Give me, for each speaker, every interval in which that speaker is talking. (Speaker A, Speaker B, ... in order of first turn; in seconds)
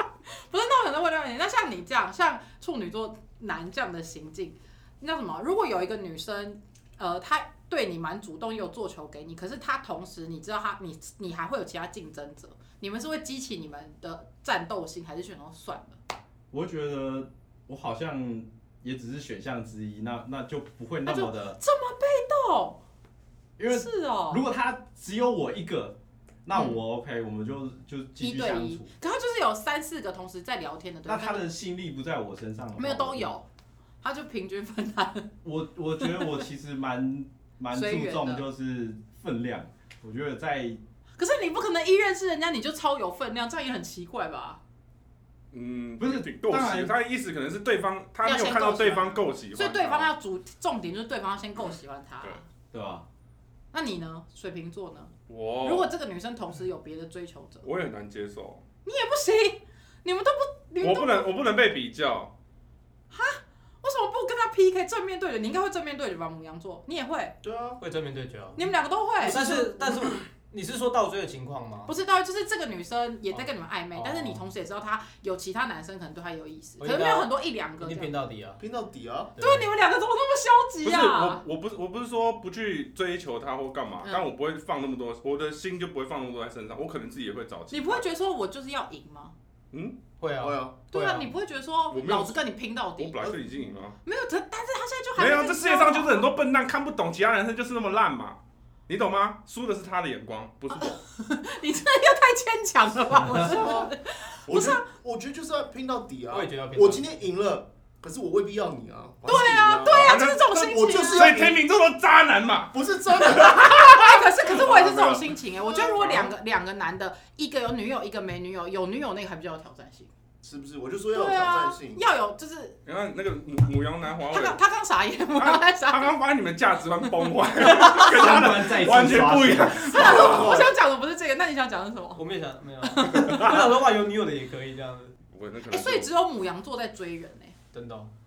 Speaker A: 0.5-16.0, 21.1-22.8, 23.7-24.4, 26.5-26.8, 28.2-31.5, 32.8-33.5, 34.0-35.3, 36.0-36.4, 37.7-38.5, 41.2-44.6, 48.2-52.4, 53.7-57.7, 58.8-61.3, 63.1-67.3, 68.5-69.7, 71.8-78.1, 79.4-81.4, 84.0-84.3, 87.7-89.3, 90.9-93.2, 94.0-96.3, 100.7-104.8, 109.2-111.4, 113.6-120.1, 121.1-122.8, 124.3-126.2, 129.8-132.2, 132.8-133.6, 135.7-137.5
Speaker B: 16.5-21.6, 23.6-28.9, 31.1-33.3, 35.4-40.8, 46.0-46.9, 52.7-53.0, 128.0-129.9
Speaker C: 45.5-50.1, 55.3-55.9, 57.6-58.6, 60.8-62.3, 80.8-88.0, 89.7-90.0, 91.9-92.4, 93.0-94.0, 95.2-101.0, 109.8-116.3, 122.8-124.6, 125.3-130.7, 133.2-133.6, 135.3-136.1
Speaker D: 67.4-67.8, 69.2-69.8, 78.6-79.3, 90.4-90.7, 103.4-103.9, 104.5-111.6, 112.7-113.8, 120.4-122.0, 129.9-130.7
Speaker E: 67.8-68.6, 69.2-71.9, 73.3-74.5, 76.8-78.6, 79.3-79.7, 90.2-91.3, 106.3-107.1, 132.2-135.2, 137.7-138.1